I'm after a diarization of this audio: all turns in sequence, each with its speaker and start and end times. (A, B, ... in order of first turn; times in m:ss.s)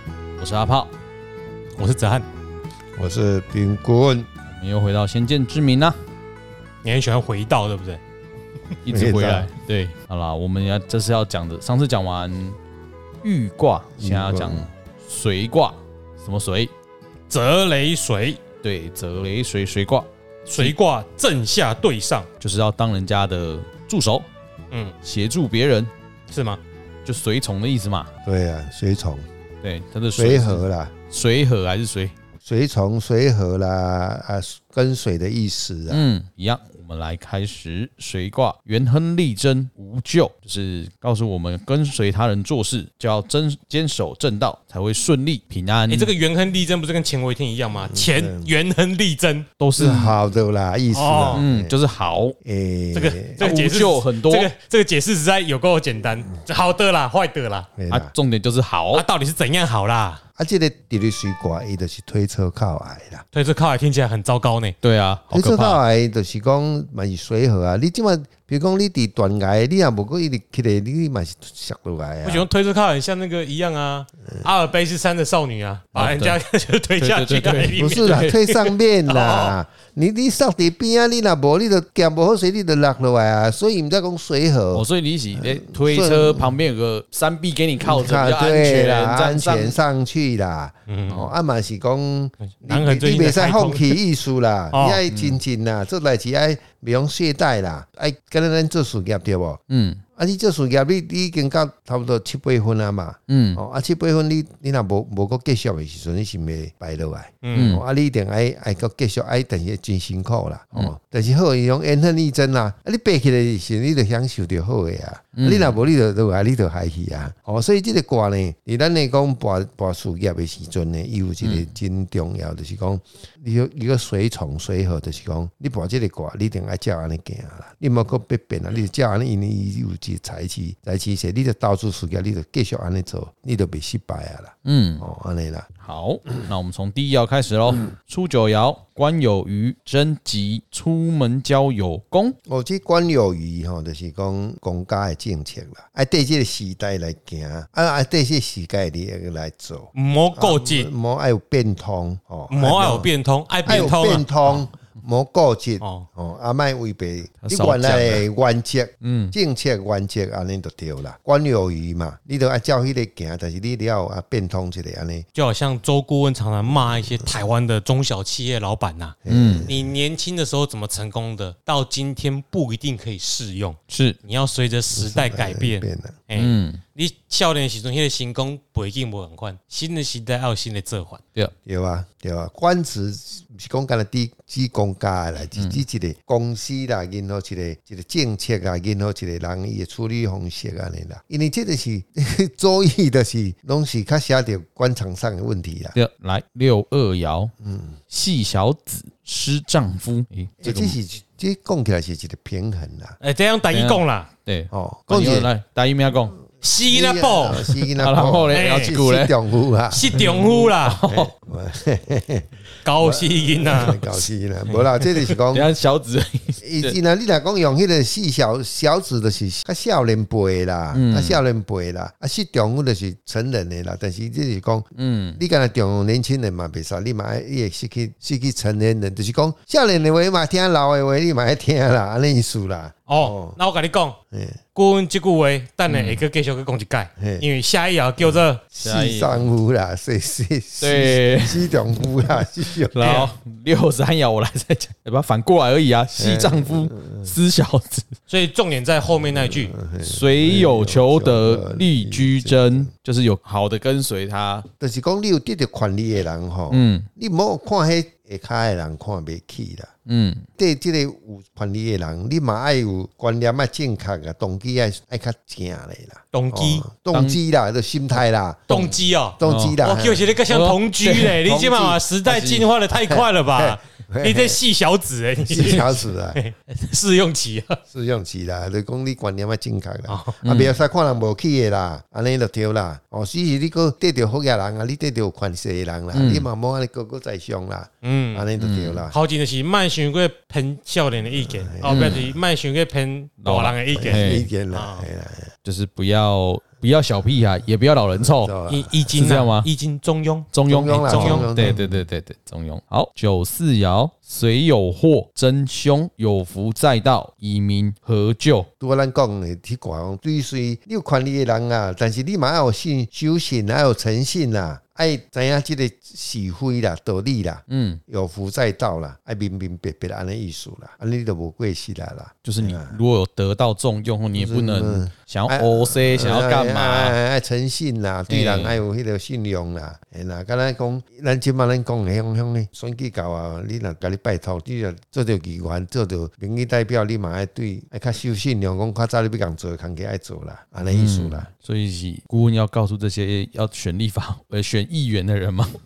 0:00.4-0:00.9 A
0:01.8-0:02.3 B
0:03.0-0:04.3 C
0:04.5-0:06.0 A
0:06.8-0:08.0 B
0:08.8-0:12.6 A
0:08.9-0:09.5 C
0:13.2-0:16.7 A
0:14.0-0:14.7 C
0:17.3-0:18.4 B
0:18.6-0:20.8 A
0:20.5-0:22.3 B
0:22.4-0:24.3 A
0:25.0-0:25.9 A
0:26.3-0:26.6 B
0:27.0-0:28.1 A
0:28.2-0:29.2 C
0:29.6-0:32.1 A
0:30.2-0:30.9 C
0:32.4-0:36.0 C
0:35.9-0:46.1 A
0:45.9-0:49.9 B
0:47.8-0:48.5 C
0:49.6-0:50.1 A
0:49.8-0:51.7 C
0:50.9-0:51.4 B
0:51.3-0:52.4 A
0:52.4-0:53.5 C
0:52.9-0:57.7 B
0:53.4-0:54.5 A
0:57.8-0:58.1 C
0:57.9-0:59.0 A
0:58.9-1:00.2 B
1:00.4-1:03.2 C
1:03.3-1:04.8 B
1:04.8-1:05.8 A
1:05.3-1:12.5 C
1:12.2-1:19.6 B
1:16.0-1:16.4 A
1:17.0-1:18.3 A
1:17.8-1:26.6 C
1:24.7-1:29.8 A
1:27.8-1:39.6 C
1:30.9-1:31.3 B
1:32.4-1:34.0 B
1:34.7-1:35.0 B
1:35.1-1:35.4 A
1:39.7-1:40.0 A
1:40.2-2:15.7 C
1:43.3-1:43.6 A
1:47.4-1:47.8 B
1:47.5-1:47.8 A
1:55.4-1:55.8 A
2:01.4-2:01.7 A
2:14.6-2:15.0 A
2:15.8-2:22.4 A
2:22.5-2:33.1 C
2:29.9-2:30.9 B
2:32.5-2:34.6 B
2:33.7-2:45.3 C
2:35.8-2:36.1 B
2:37.4-2:38.3 A
2:39.0-2:39.3 A
2:45.4-3:01.2 B
2:49.2-2:49.9 C
2:49.3-2:49.7 A
2:53.9-2:54.2 A
2:54.9-2:56.2 C
2:56.4-2:56.8 A
3:01.7-3:16.0 C
3:05.6-3:05.8 A
3:16.0-3:17.5 A
3:17.6-3:18.0 C
3:18.1-3:21.0 A
3:20.6-3:23.2 C
3:23.2-3:24.3 B
3:23.7-3:26.4 A
3:24.7-3:25.5 C
3:26.6-3:27.7 B
3:26.8-3:30.2 C
3:28.0-3:29.4 A
3:28.5-3:28.9 B
3:29.9-3:31.1 B
3:30.1-3:31.3 A
3:31.1-3:35.7 C
3:32.8-3:34.1 B
3:34.7-3:35.4 B
3:35.5-3:37.0 A
3:36.6-3:53.6 C
3:40.9-3:41.4 A
3:45.0-3:45.4 A
3:53.1-3:54.2 B
3:54.3-3:54.6 C
3:54.7-3:58.7 B
3:55.9-3:56.2 A
3:57.2-3:57.5 C
3:58.4-4:03.1 C
3:58.8-3:59.5 A
4:00.8-4:08.1 A
4:03.0-4:03.3 B
4:06.2-4:07.3 C
4:08.3-4:09.8 B
4:09.3-4:12.9 C
4:10.0-4:14.7 A
4:14.8-4:19.9 C
4:16.7-4:17.1 A
4:20.1-4:20.5 A
4:20.6-4:28.7 C
4:26.3-4:26.9 B
4:27.1-4:27.4 A
4:28.7-4:37.8 B
4:28.7-4:29.8 A
4:29.4-4:30.3 C
4:30.5-4:31.4 A
4:31.4-4:32.0 C
4:32.2-4:32.7 A
4:32.9-4:34.6 C
4:35.4-4:36.4 C
4:37.9-4:49.2 C
4:40.1-4:40.4 B
4:40.4-4:40.8 A
4:46.1-4:46.5 A
4:48.0-4:48.5 B
4:48.6-4:49.0 A
4:49.1-4:55.1 B
4:51.4-4:52.2 C
4:51.9-4:52.2 A
4:53.4-4:54.5 A
4:53.9-4:55.5 C
4:55.6-4:58.5 A
4:58.2-4:59.0 C
4:58.7-5:01.7 B
4:59.1-4:59.7 A
5:00.5-5:08.7 A
5:00.7-5:02.0 C
5:08.8-5:23.0 C
5:17.7-5:18.0 A
5:22.4-5:27.2 A
5:24.3-5:41.5 C
5:28.3-5:28.8 A
5:40.9-5:45.7 A